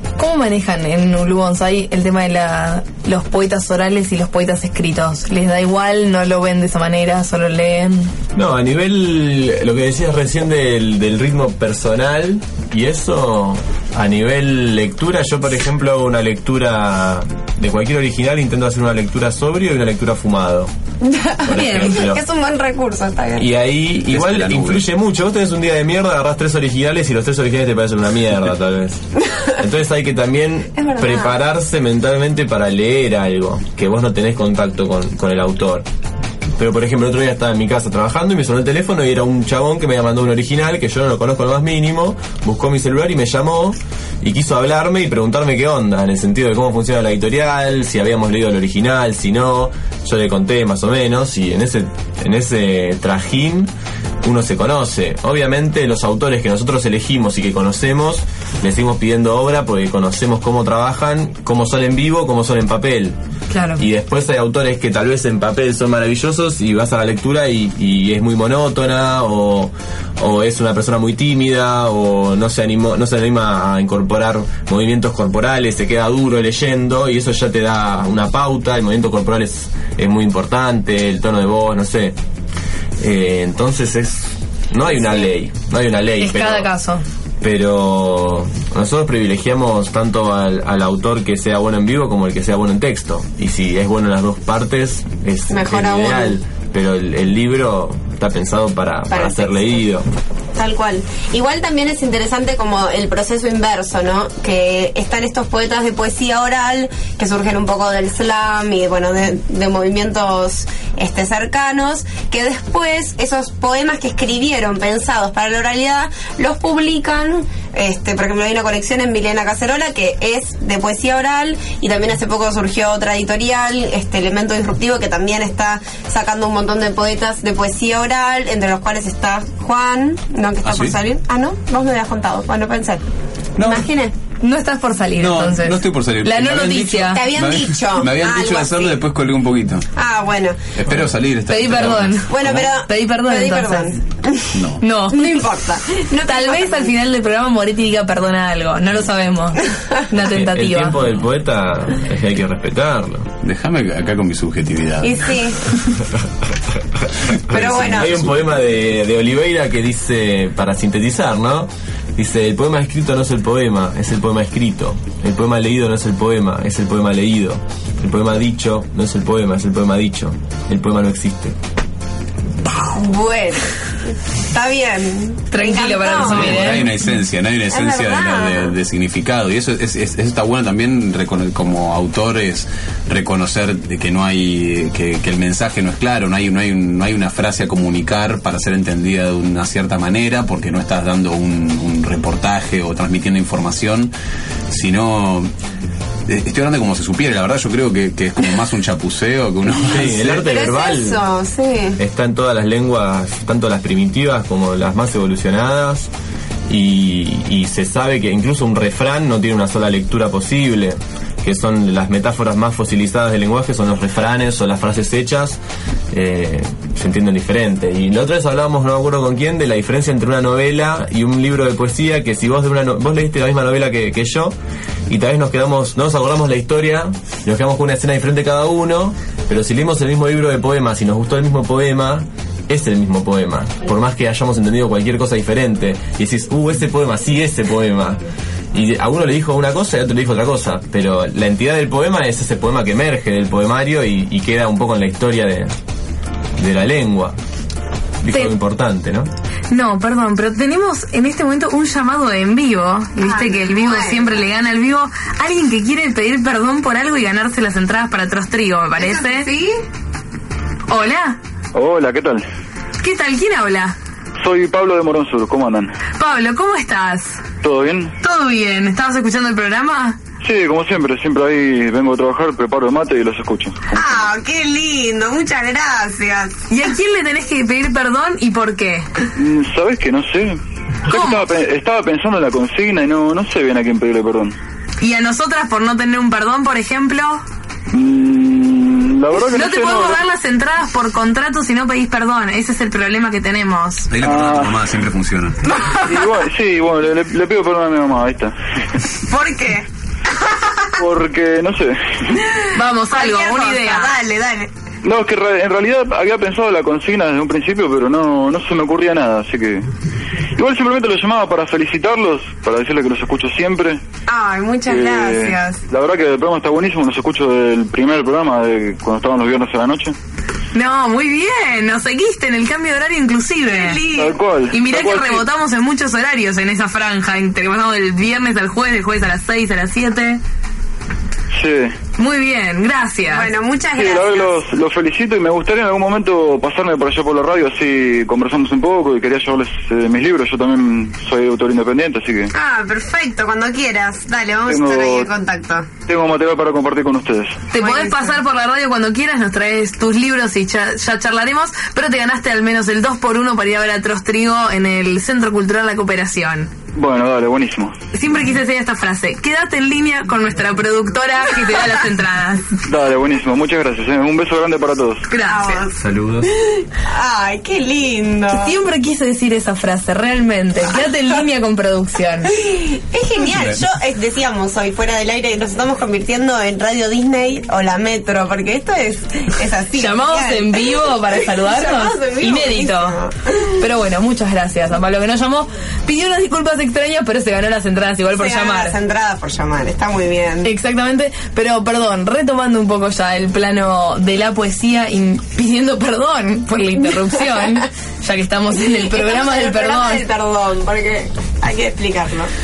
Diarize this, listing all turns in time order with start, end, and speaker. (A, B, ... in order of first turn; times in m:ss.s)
0:00.2-0:08.1 A
0:08.3-0:20.7 B
0:21.0-0:23.5 C
0:21.4-0:22.2 B
0:23.4-0:29.0 B
0:24.1-0:24.9 D
0:29.6-0:35.8 B
0:30.8-0:31.4 C
0:36.6-0:53.7 B
0:54.2-1:03.2 B
1:03.5-1:03.8 A
1:03.8-1:22.1 B
1:23.0-1:26.7 B
1:24.8-1:25.3 C
1:26.2-1:27.0 A
1:27.4-1:40.1 B
1:35.5-1:36.4 C
1:39.1-1:39.9 C
1:40.5-2:13.0 C
2:10.6-2:11.0 D
2:13.6-2:13.8 D
2:13.6-2:14.1 C
2:14.4-2:17.3 A
2:15.2-2:19.8 D
2:17.0-2:19.0 C
2:20.0-2:20.6 C
2:20.8-2:22.7 D
2:21.5-2:23.9 A
2:22.3-2:24.5 C
2:24.5-2:24.8 D
2:24.8-2:25.4 A
2:25.1-2:26.9 C
2:26.2-2:31.0 A
2:30.2-2:33.3 B
2:33.4-2:35.3 D
2:35.0-2:35.6 C
2:37.5-2:38.6 D
2:37.5-2:38.3 C
2:37.5-2:51.5 B
2:52.8-2:53.7 C
2:54.5-2:56.9 C
2:55.5-2:56.9 A
2:56.1-3:14.1 D
2:57.7-2:58.7 C
3:14.7-3:15.5 D
3:16.3-3:20.5 D
3:19.9-3:21.2 B
3:20.4-3:22.0 C
3:22.0-3:26.1 B
3:26.7-3:35.6 B
3:36.1-3:44.5 B
3:45.1-3:58.2 B
3:58.7-4:05.7 B
4:06.6-4:07.4 B
4:08.2-4:09.3 B
4:09.7-4:19.5 A
4:13.2-4:14.4 C
4:19.0-4:19.8 C
4:20.9-4:21.4 A
4:21.7-4:22.4 E
4:23.0-4:23.9 A
4:24.4-4:25.9 E
4:26.2-4:27.4 A
4:27.6-4:28.1 E
4:28.2-4:30.2 A
4:30.4-4:34.2 E
4:33.9-4:36.5 C
4:36.7-4:39.1 A
4:39.4-4:44.5 E
4:41.1-4:41.5 A
4:45.0-4:47.4 A
4:47.9-4:50.2 E
4:49.5-4:54.1 A
4:54.1-4:55.6 D
4:54.2-4:54.7 E
4:56.0-4:58.5 E
4:59.3-4:59.8 C
5:00.4-5:00.9 C
5:01.0-5:02.0 E
5:02.7-5:04.1 A
5:03.1-5:04.7 C
5:05.0-5:09.9 E
5:10.6-5:14.0 E
5:14.2-5:15.8 C
5:14.9-5:20.1 E
5:20.7-5:30.4 A
5:23.7-5:24.3 C
5:24.0-5:25.4 E
5:31.5-5:31.9 E
5:32.2-5:33.5 A
5:33.3-5:34.6 C
5:34.0-5:42.5 E
5:42.5-5:45.9 C
5:44.7-5:45.3 E
5:46.0-5:47.6 E
5:47.7-5:56.7 A
5:47.7-5:48.4 C
5:56.9-5:57.9 E
5:58.1-6:02.6 A
6:02.9-6:05.3 E
6:05.3-6:05.8 A
6:05.4-6:05.9 C
6:05.9-6:06.5 B
6:07.0-6:08.7 C
6:08.5-6:12.5 A
6:12.6-6:23.7 C
6:13.4-6:13.8 D
6:20.0-6:23.2 A
6:23.8-6:29.0 A
6:28.3-6:30.7 C
6:30.6-6:40.2 A
6:37.2-6:37.8 C
6:38.7-6:42.5 C